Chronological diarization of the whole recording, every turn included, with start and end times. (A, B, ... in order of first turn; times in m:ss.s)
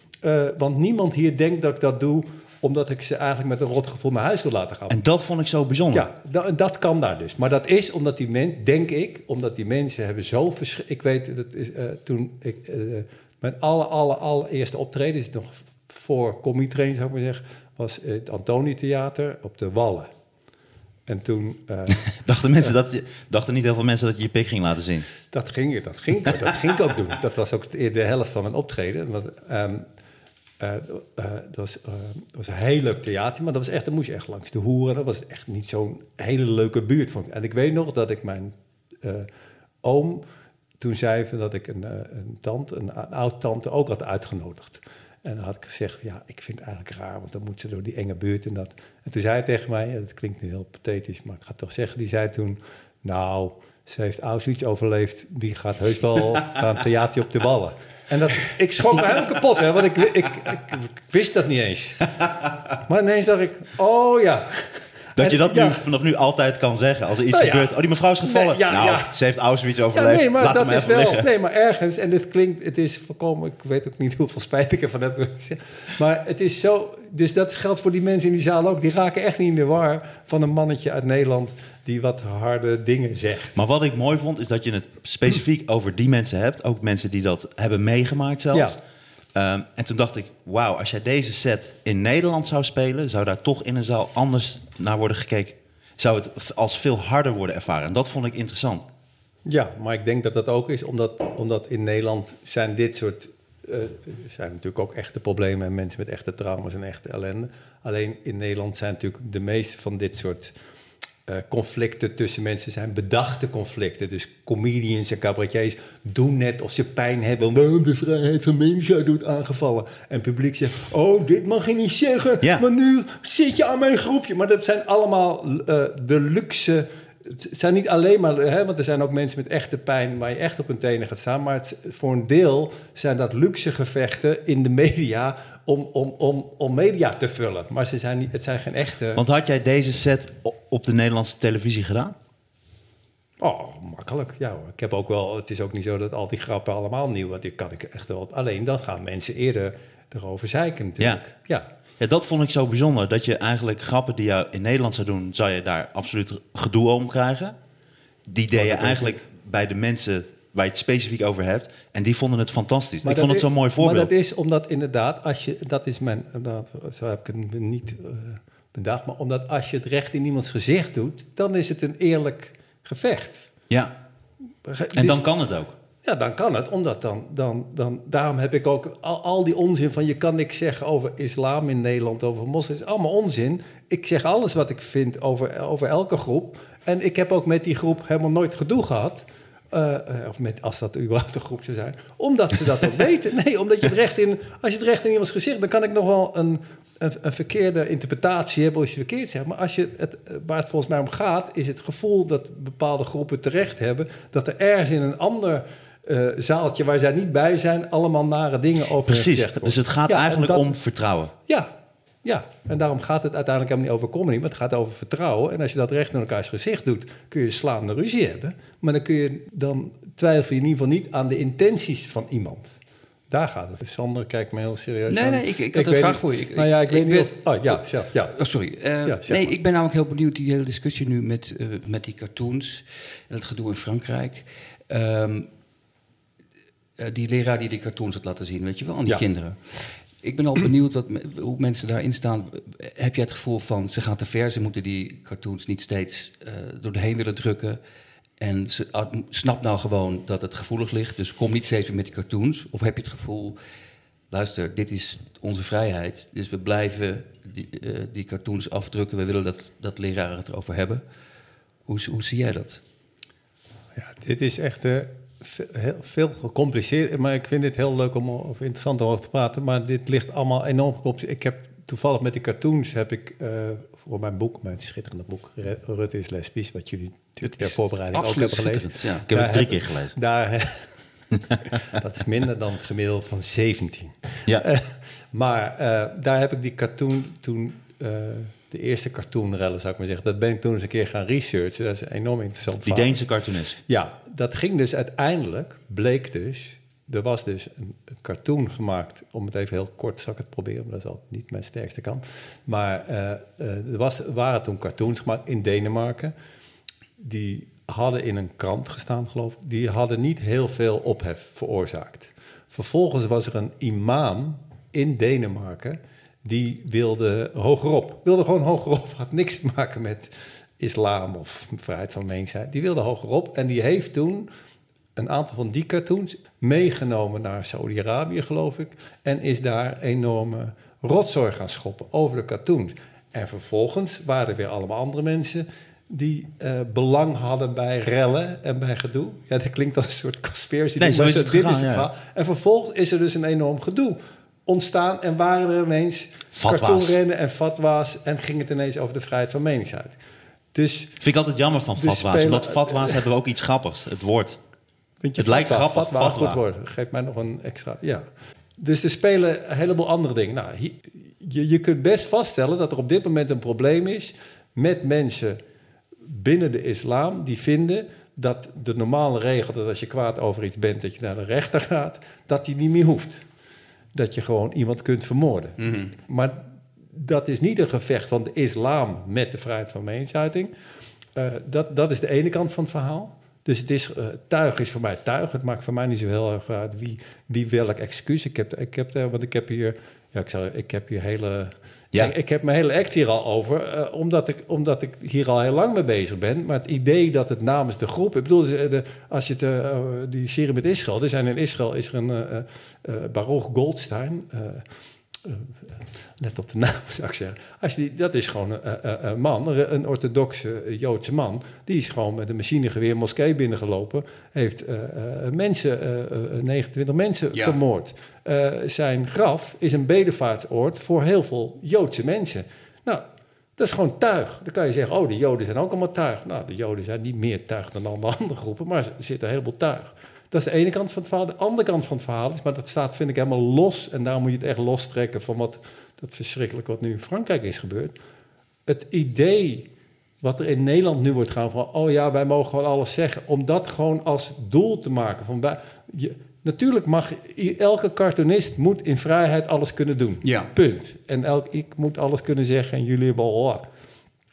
0:00.2-0:05.0 A
0:04.9-0:06.1 B
0:05.9-0:20.1 A
0:21.1-0:22.1 A
0:21.9-0:25.1 B
0:25.3-0:29.9 A
0:30.6-0:39.3 A
0:39.8-0:40.2 A
0:40.8-1:02.1 A
1:02.8-1:05.8 A
1:05.2-1:11.3 B
1:07.3-1:09.1 A
1:09.9-1:23.5 A
1:23.5-1:28.8 B
1:29.3-1:38.9 B
1:39.4-1:50.5 A
1:51.3-2:19.2 A
2:19.1-2:22.2 B
2:23.4-2:31.7 A
2:32.0-2:37.6 B
2:38.3-2:44.1 B
2:38.5-2:39.2 A
2:43.0-2:53.5 A
2:54.6-2:55.3 A
2:54.9-2:55.7 B
2:56.0-3:30.8 A
3:29.1-3:31.3 B
3:32.2-3:42.7 A
3:43.3-3:48.3 A
3:45.1-3:55.5 C
3:49.0-3:49.5 A
3:57.0-4:07.8 C
4:08.4-4:13.6 C
4:14.3-4:21.0 C
4:21.9-4:22.8 C
4:24.0-4:40.9 A
4:37.4-4:39.2 C
4:39.3-4:40.1 B
4:41.8-4:53.2 A
4:52.8-4:53.8 B
4:53.9-5:06.3 A
5:07.2-5:24.5 A
5:25.2-5:50.2 A
5:41.0-5:42.1 B
5:46.5-5:47.2 B
5:50.7-5:51.2 A
5:51.2-5:54.6 B
5:52.0-5:53.2 A
5:55.2-5:58.2 A
5:55.4-5:56.6 B
5:58.8-6:05.6 A
6:06.2-6:13.4 A
6:14.1-6:20.7 A
6:15.8-6:16.1 C
6:21.3-6:44.8 A
6:45.4-7:03.2 A
7:03.8-7:18.1 A
7:18.9-7:19.9 A
7:20.4-7:33.8 A
7:30.4-7:30.7 C